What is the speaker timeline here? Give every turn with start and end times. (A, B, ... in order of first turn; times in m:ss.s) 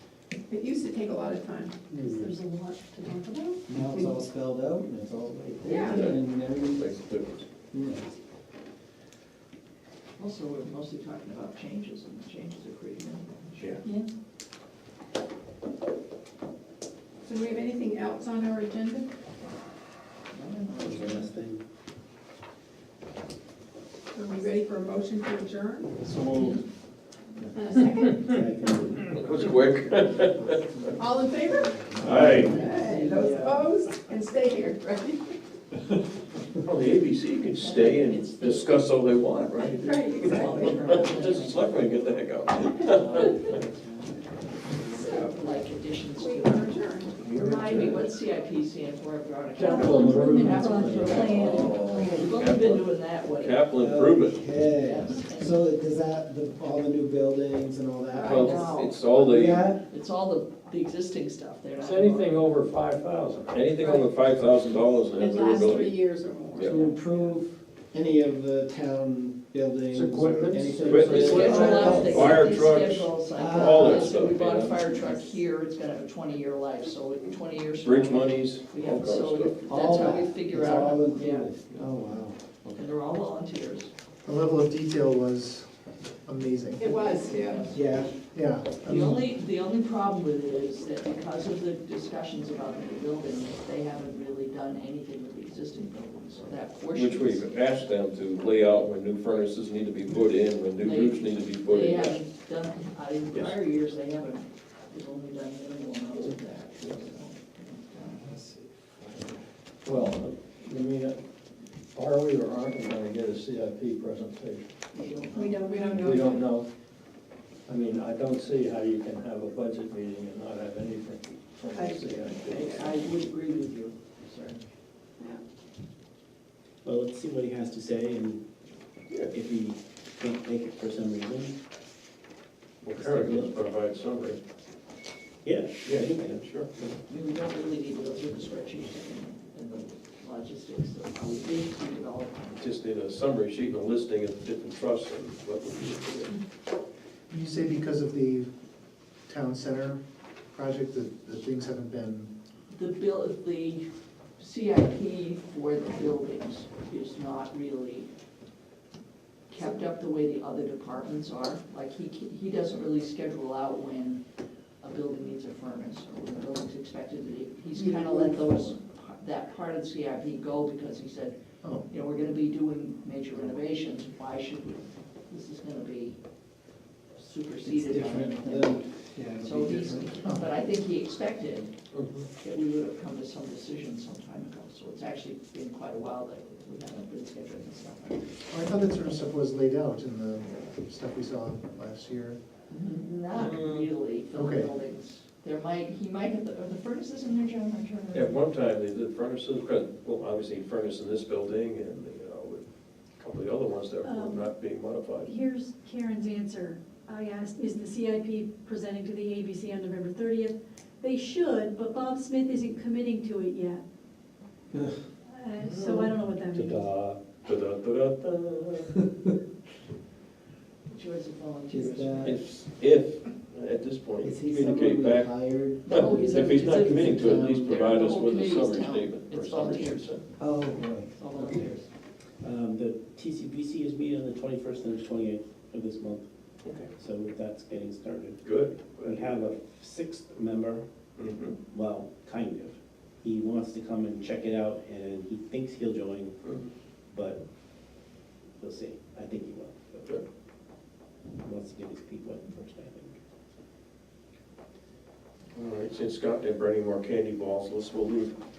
0:00.5-0:03.6 A
0:01.9-0:02.3 B
0:03.7-0:07.0 C
0:05.6-0:05.9 B
0:05.7-0:06.0 A
0:05.8-0:07.4 D
0:07.7-0:08.1 C
0:10.2-0:13.9 E
0:13.6-0:13.8 D
0:17.2-0:19.1 A
0:20.3-0:21.3 E
0:20.8-0:21.6 B
0:24.1-0:25.9 A
0:27.5-0:28.0 A
0:28.1-0:29.2 B
0:29.1-0:30.7 D
0:30.6-0:32.7 C
0:31.0-0:31.7 A
0:32.0-0:32.6 D
0:32.2-0:33.7 E
0:32.5-0:35.2 A
0:36.6-0:43.5 D
0:37.5-0:41.8 E
0:39.7-0:40.3 A
0:42.8-0:44.2 E
0:44.8-0:53.6 E
0:44.9-0:45.4 A
0:46.2-0:47.1 A
0:47.2-0:48.1 D
0:49.6-0:51.3 B
0:49.6-0:52.2 F
0:51.1-0:54.5 D
0:53.7-0:59.8 C
0:54.7-0:55.6 E
0:58.1-0:58.4 A
0:58.2-0:59.7 D
0:58.3-0:59.0 E
0:59.9-1:02.6 E
1:01.8-1:03.7 G
1:03.5-1:06.0 D
1:05.2-1:06.7 A
1:06.5-1:06.9 D
1:06.6-1:12.5 C
1:09.9-1:12.0 G
1:10.2-1:15.0 D
1:11.1-1:21.5 E
1:11.7-1:12.0 H
1:13.3-1:14.1 C
1:17.8-1:20.1 D
1:19.7-1:22.4 C
1:21.7-1:22.8 D
1:22.7-1:23.9 E
1:24.2-1:26.9 H
1:26.8-1:27.7 A
1:26.8-1:28.2 E
1:27.7-1:28.2 C
1:28.3-1:29.3 H
1:28.8-1:37.5 E
1:36.9-1:42.2 D
1:40.8-1:48.3 E
1:43.3-1:43.6 D
1:48.2-1:49.4 C
1:49.8-1:51.1 G
1:50.0-1:50.3 D
1:51.9-1:54.4 G
1:53.0-1:54.6 D
1:54.9-1:56.2 E
1:55.4-1:56.2 A
1:56.0-1:56.6 G
1:57.7-2:03.0 G
2:01.7-2:04.6 E
2:06.8-2:08.4 B
2:09.3-2:11.6 B
2:12.8-2:14.4 D
2:12.9-2:13.6 B
2:15.4-2:17.0 B
2:15.8-2:16.7 D
2:17.1-2:22.6 E
2:22.6-2:26.3 D
2:27.3-2:28.5 H
2:29.2-2:32.3 H
2:32.7-2:38.1 E
2:39.5-2:44.2 E
2:44.8-2:56.2 E
2:48.0-2:48.4 C
2:57.1-3:01.7 E
2:57.6-3:00.1 C
3:01.9-3:02.3 D
3:02.4-3:08.2 E
3:08.5-3:12.4 H
3:12.7-3:18.3 E
3:13.3-3:13.9 D
3:14.3-3:14.7 H
3:18.1-3:25.3 D
3:24.0-3:24.5 F
3:25.2-3:33.8 F
3:35.3-3:36.9 F
3:35.6-3:36.2 D
3:36.5-3:37.0 G
3:37.4-3:39.0 D
3:40.9-3:42.4 E
3:41.7-3:42.4 C
3:42.2-3:50.2 D
3:44.2-3:48.0 C
3:45.9-3:50.1 E
3:50.4-3:51.1 C
3:51.1-3:51.9 E
3:52.4-3:56.2 B
3:57.0-4:00.8 B
3:58.4-3:59.4 D
4:01.2-4:01.6 D
4:01.7-4:06.4 B
4:06.4-4:06.7 D
4:07.1-4:07.4 B
4:08.6-4:10.1 B
4:11.4-4:13.1 B
4:15.5-4:18.3 D